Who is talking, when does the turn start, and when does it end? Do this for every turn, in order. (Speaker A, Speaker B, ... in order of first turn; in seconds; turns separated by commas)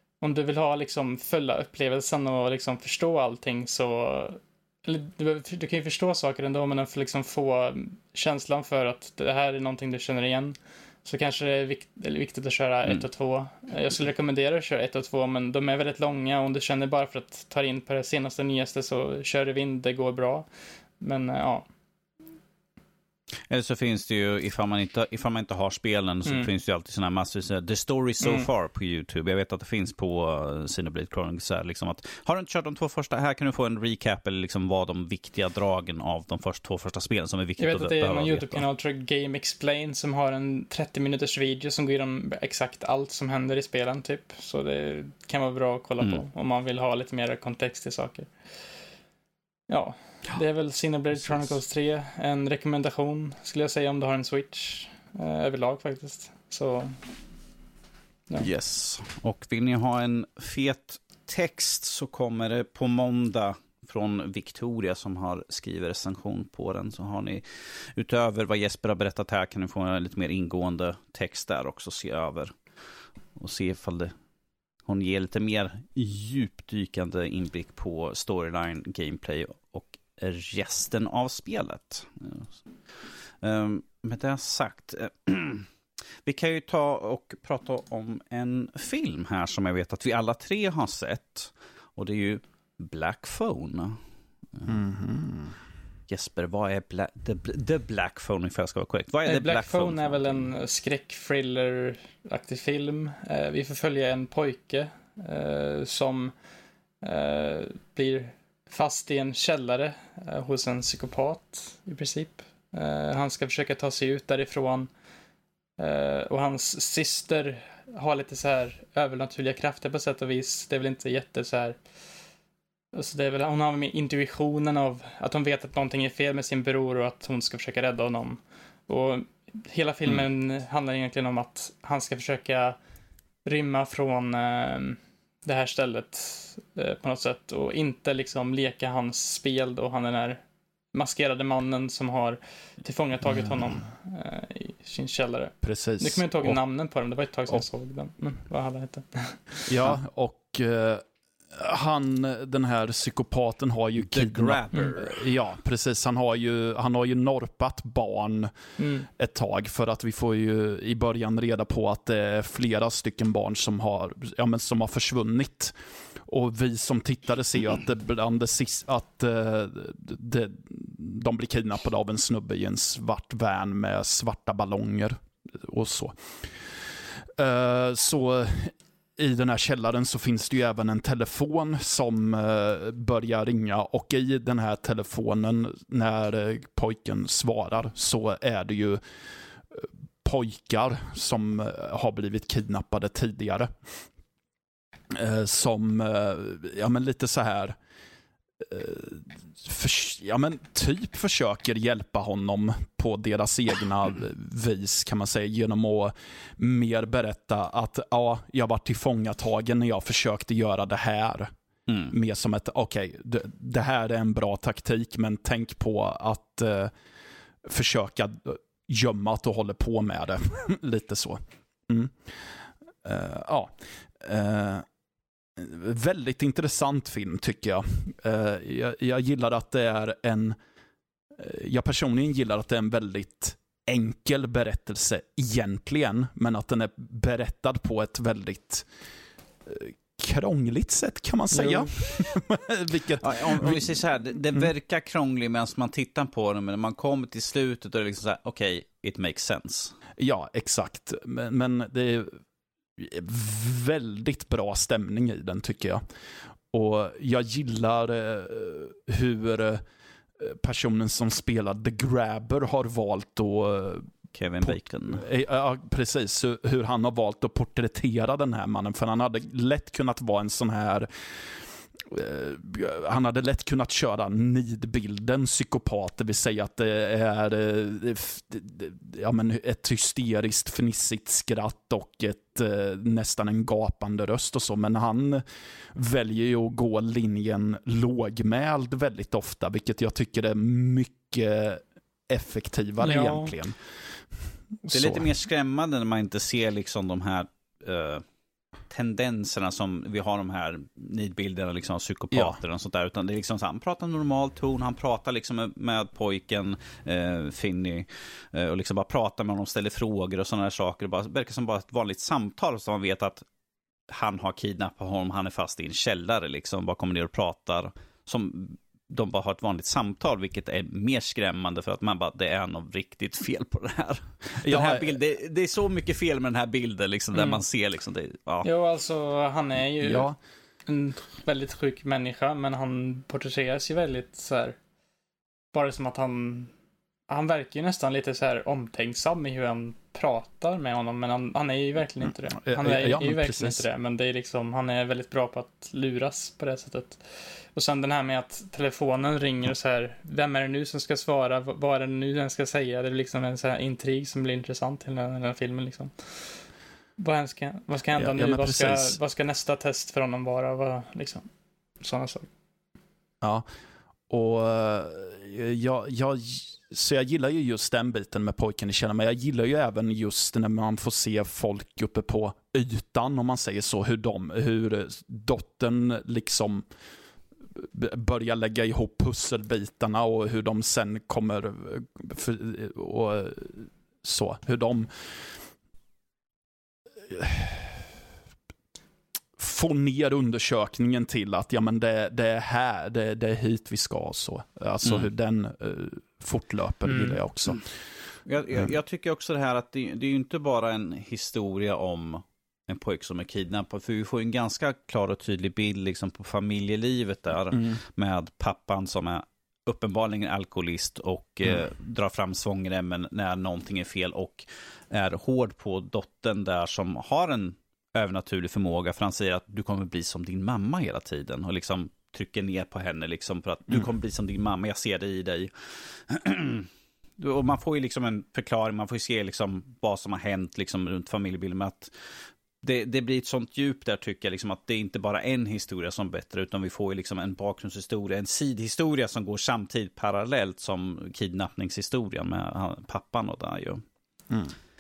Speaker A: 0.2-20.5, Speaker A: 21.0-21.6, Speaker B: 23.5-38.6, Speaker A: 26.2-26.5, Speaker A: 28.2-28.5, Speaker A: 37.6-48.3, Speaker A: 49.7-57.0, Speaker B: 58.4-72.5, Speaker B: 73.4-74.1, Speaker B: 74.8-85.7, Speaker B: 86.2-94.0, Speaker C: 94.7-95.5, Speaker B: 96.1-100.5, Speaker A: 99.2-106.3, Speaker A: 107.0-114.9, Speaker A: 115.8-121.8, Speaker A: 122.9-132.8, Speaker A: 133.4-140.4, Speaker A: 140.9-149.7, Speaker C: 145.6-146.6, Speaker C: 149.7-158.5, Speaker B: 154.0-155.2, Speaker A: 158.8-159.1, Speaker C: 159.1-165.7, Speaker C: 166.2-176.3, Speaker C: 177.2-189.0, Speaker C: 189.7-193.7, Speaker C: 195.1-197.8, Speaker C: 198.6-211.5, Speaker B: 211.9-212.1, Speaker C: 212.1-216.9, Speaker C: 217.6-222.3, Speaker C: 223.0-224.8, Speaker C: 225.6-230.6, Speaker C: 231.3-238.9, Speaker C: 239.7-243.9, Speaker A: 241.6-241.9, Speaker B: 243.2-249.9, Speaker C: 250.2-252.4, Speaker C: 253.0-256.0, Speaker C: 256.7-259.8, Speaker C: 260.4-264.1, Speaker B: 264.3-265.2, Speaker C: 264.6-293.8, Speaker A: 293.0-293.5, Speaker C: 294.8-295.3, Speaker B: 294.9-298.2, Speaker B: 298.9-313.4, Speaker C: 302.3-302.6, Speaker B: 314.1-328.7, Speaker C: 324.6-325.1, Speaker A: 327.3-327.6, Speaker A: 328.6-330.3, Speaker C: 330.0-330.4, Speaker A: 330.9-334.8, Speaker A: 335.7-336.7, Speaker A: 337.3-356.6, Speaker C: 342.6-343.9, Speaker A: 357.2-361.5, Speaker C: 358.1-359.1, Speaker A: 362.0-362.5, Speaker C: 364.3-376.9, Speaker C: 377.7-385.1, Speaker C: 387.2-388.1, Speaker C: 389.6-397.8, Speaker A: 397.1-397.4, Speaker B: 398.4-432.1, Speaker B: 432.8-444.0